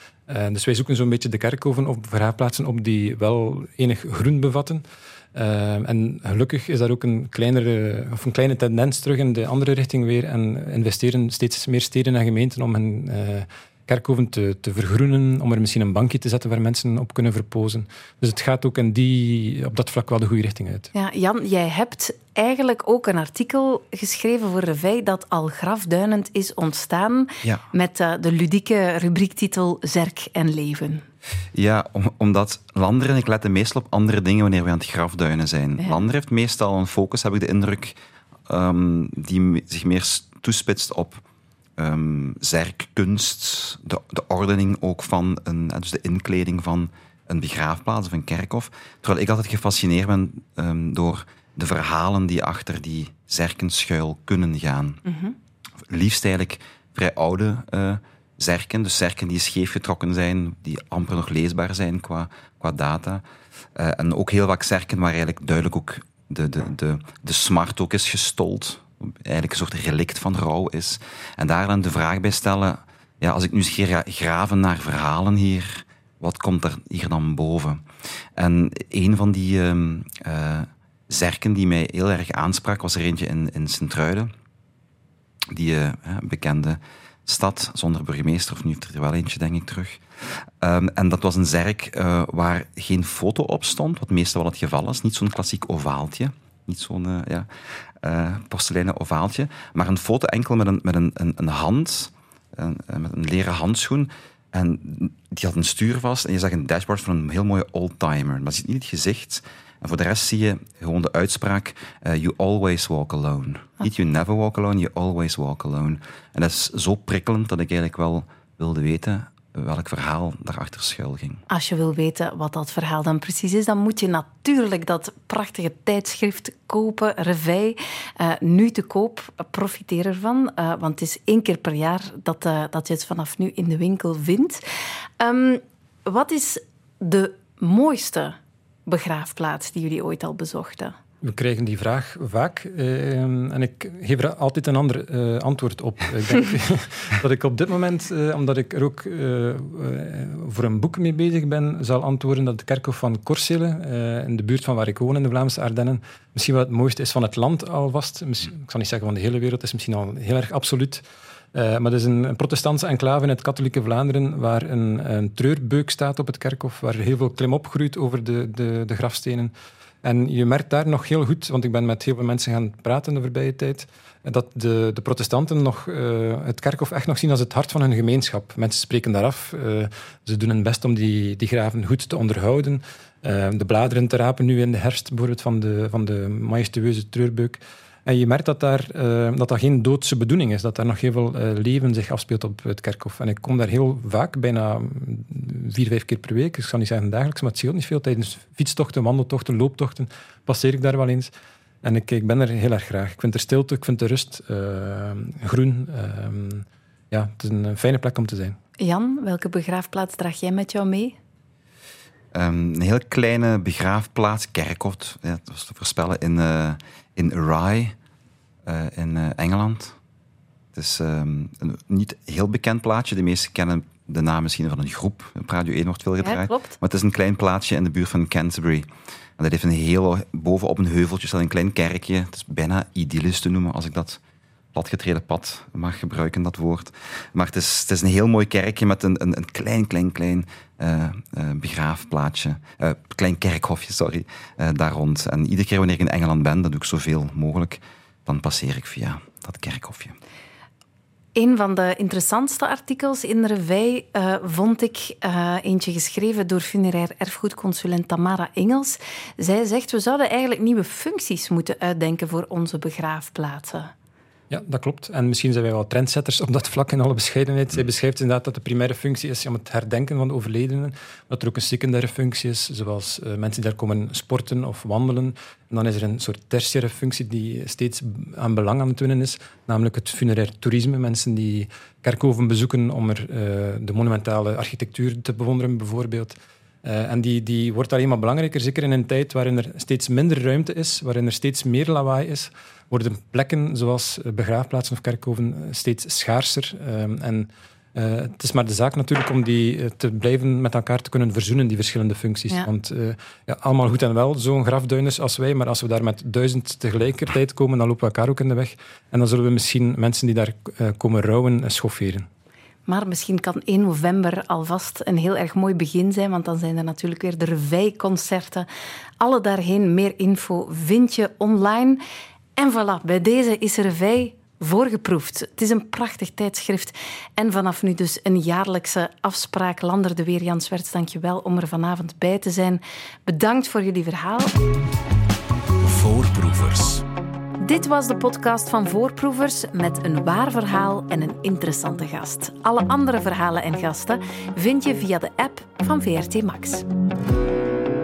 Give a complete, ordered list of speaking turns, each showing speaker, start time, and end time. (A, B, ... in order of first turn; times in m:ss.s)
0:00.3-0:20.9 A
0:20.9-0:31.0 B
0:31.5-0:38.0 C
0:38.5-0:41.2 C
0:41.8-0:55.0 C
0:55.1-0:55.3 B
0:55.9-1:03.2 C
1:03.7-1:17.8 C
1:18.4-1:24.3 C
1:25.5-1:37.5 C
1:38.0-2:01.4 C
2:01.5-2:14.6 B
2:15.2-2:18.4 B
2:18.9-2:20.9 B
2:21.2-2:41.0 A
2:41.5-2:49.5 A
2:50.0-3:21.3 A
3:21.8-3:28.6 A
3:28.8-3:31.2 B
3:32.3-3:37.9 C
3:38.6-3:40.0 C
3:40.7-3:48.9 C
3:46.2-3:46.8 B
3:49.4-3:54.2 C
3:54.7-4:10.2 C
4:11.4-4:23.9 B
4:24.5-5:12.3 A
5:12.9-5:18.7 B
5:19.2-5:22.0 B
5:22.6-5:34.6 B
5:35.8-5:37.0 C
5:37.6-5:46.8 B